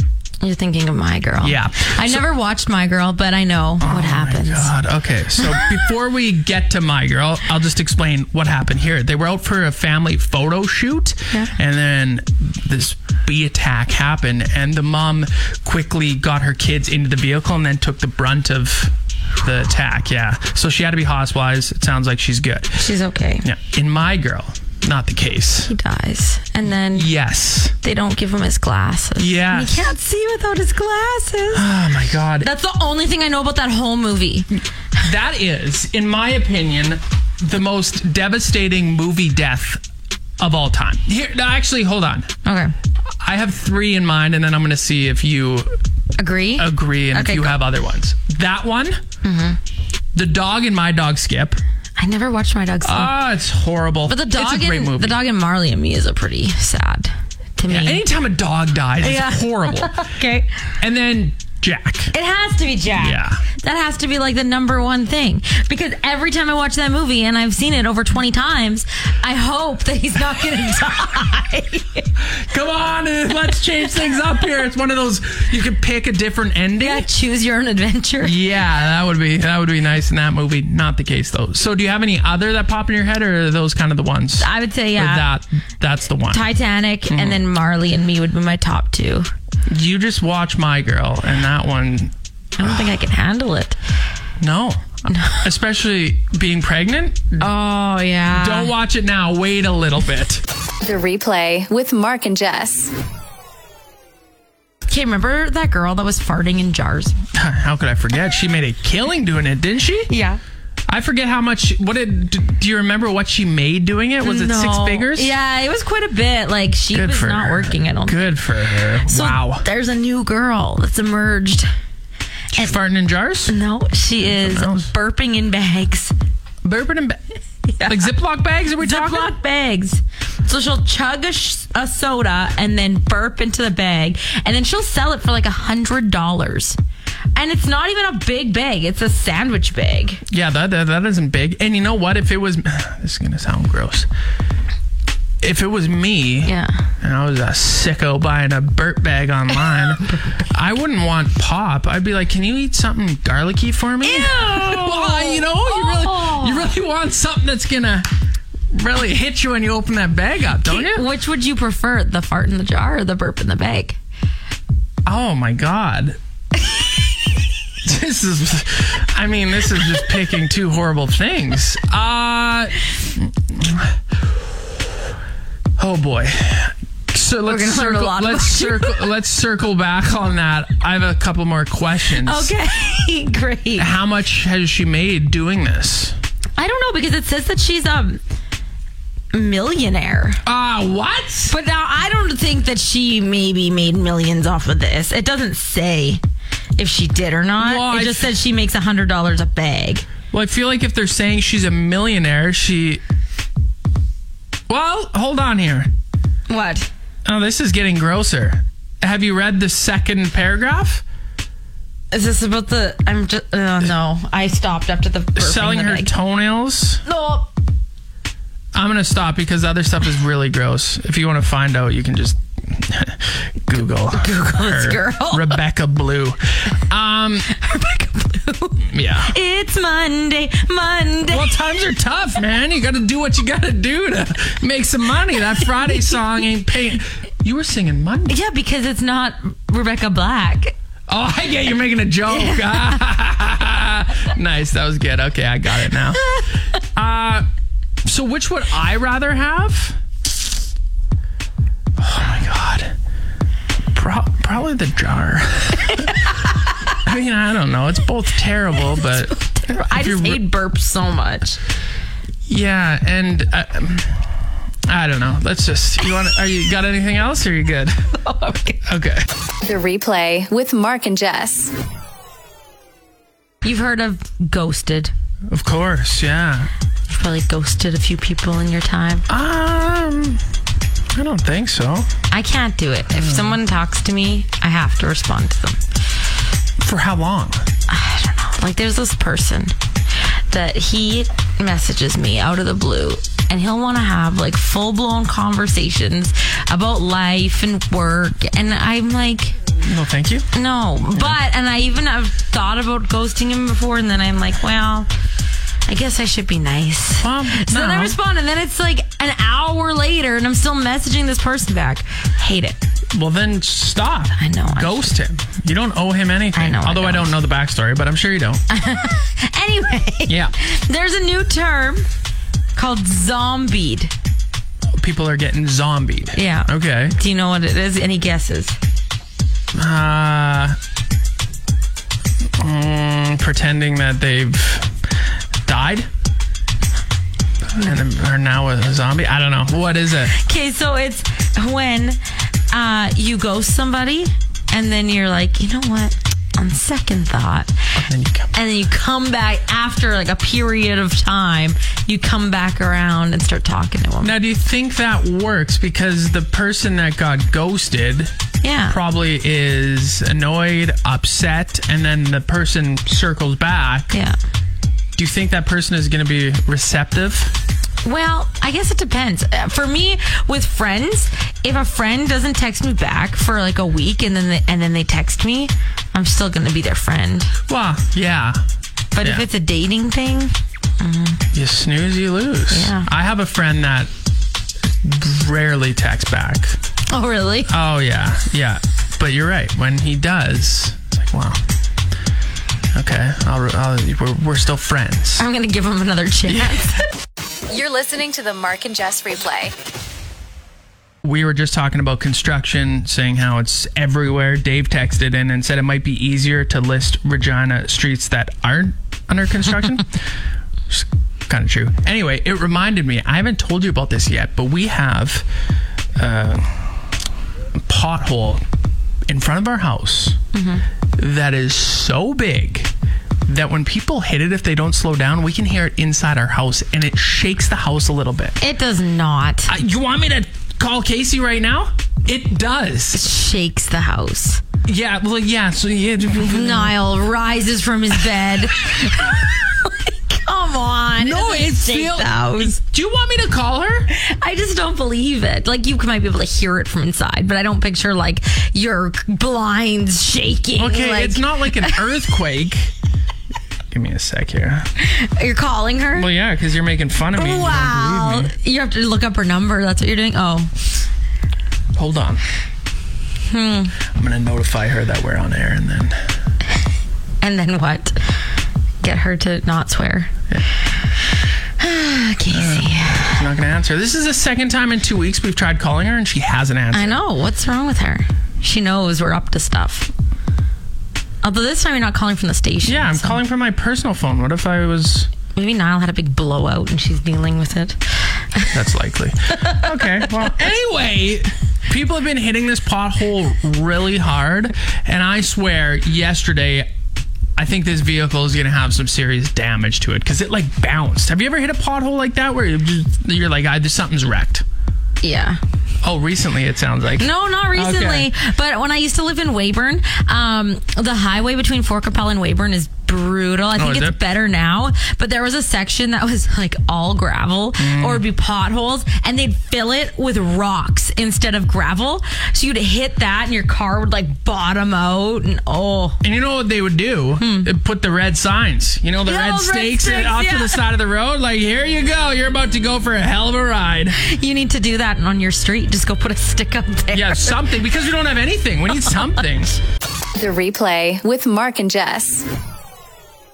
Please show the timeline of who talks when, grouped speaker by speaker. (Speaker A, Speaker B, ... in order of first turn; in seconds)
Speaker A: 0.4-4.7, 22.8-23.5, 25.7-27.1, 27.8-31.6, 32.4-34.5, 42.5-42.7, 46.2-47.6, 49.2-49.6, 52.0-53.2, 54.1-58.0, 59.0-60.5, 62.1-72.1, 76.8-78.4, 84.4-85.3, 86.3-89.3, 92.6-93.8, 95.1-95.5, 97.4-98.7, 104.9-107.2, 110.1-110.4, 114.2-118.3, 119.0-121.7, 123.5-126.1, 127.7-128.1, 128.8-136.8, 137.3-140.2, 146.4-146.8, 154.0-156.7, 160.6-164.0, 177.5-179.1, 182.2-183.9, 186.6-188.2, 189.3-190.4, 191.5-196.2, 196.8-200.1, 206.5-206.9, 212.1-216.1, 217.1-217.5, 224.1-225.6, 227.5-231.5, 238.3-240.7, 242.3-243.0, 259.3-261.6, 268.2-268.8, 273.6-275.1, 277.1-279.3, 282.3-285.8, 287.9-289.7, 290.5-299.6, 300.5-305.1, 305.9-312.8, 314.4-315.1, 316.6-317.3, 318.7-322.1, 322.8-324.1, 326.3-328.8, 340.3-342.2, 342.7-347.7, 348.5-354.4, 358.6-359.0, 368.0-377.5, 379.1-381.4, 382.7-383.1, 387.1-387.7, 395.4-397.0, 420.5-420.8, 428.6-429.7, 433.1-434.6, 436.4-442.8, 444.1-452.1, 455.0-456.3, 457.4-460.7, 463.5-464.0, 467.4-468.2, 469.0-470.3, 471.8-473.4, 476.9-480.1, 481.4-483.4, 485.6-488.8, 489.6-490.3, 505.2-505.6, 507.2-526.2, 527.4-527.7, 529.2-530.8, 534.2-537.6
Speaker B: 1.4-2.3, 3.8-22.8, 23.4-25.7, 26.9-27.7, 29.2-29.9, 31.5-32.5, 35.0-39.8, 40.4-42.3, 43.2-45.8, 46.6-49.0, 50.1-51.6, 52.8-55.2, 57.7-59.9, 60.8-62.1, 63.0-63.4, 72.2-77.1, 78.2-86.5, 87.1-87.4, 89.7-92.9, 94.4-97.5, 98.3-100.4, 107.3-110.1, 110.9-115.3, 116.9-119.7, 122.5-123.5, 124.2-124.9, 126.6-127.2, 127.9-129.3, 140.3-144.1, 145.4-158.1, 158.7-161.1, 165.1-166.2, 167.8-174.0, 175.8-182.5, 183.8-186.2, 190.4-191.5, 197.6-198.3, 200.3-203.0, 204.7-205.9, 207.2-211.0, 215.4-217.0, 218.7-227.5, 228.9-229.3, 231.3-238.4, 241.1-246.2, 246.8-247.5, 248.1-250.0, 252.0-252.9, 253.9-256.3, 256.9-260.4, 262.5-264.2, 264.9-268.1, 268.9-269.3, 275.5-276.7, 279.3-280.4, 281.1-282.1, 283.1-283.6, 286.8-287.6, 299.8-300.5, 307.2-308.2, 313.1-318.6, 320.3-320.5, 325.0-327.2, 329.7-330.8, 332.6-335.0, 335.6-336.1, 337.7-340.4, 347.9-348.5, 354.2-358.3, 358.9-364.1, 365.2-367.5, 377.7-378.6, 379.2-379.5, 381.5-384.1, 385.0-386.8, 387.7-391.6, 392.9-395.4, 401.2-410.2, 410.9-415.4, 416.2-417.0, 417.8-418.6, 419.3-420.4, 421.2-422.9, 423.5-428.6, 429.7-433.2, 434.9-436.9, 439.0-439.3, 441.2-444.1, 450.8-452.9, 453.9-454.9, 456.1-458.5, 461.9-462.4, 464.1-466.2, 472.5-477.2, 482.8-485.3, 488.7-496.9, 497.6-504.6, 506.0-508.3, 513.8-514.2, 517.8-518.2, 526.2-534.2, 537.1-539.8
Speaker C: 100.8-102.9, 269.6-271.7, 397.7-399.8, 540.4-542.5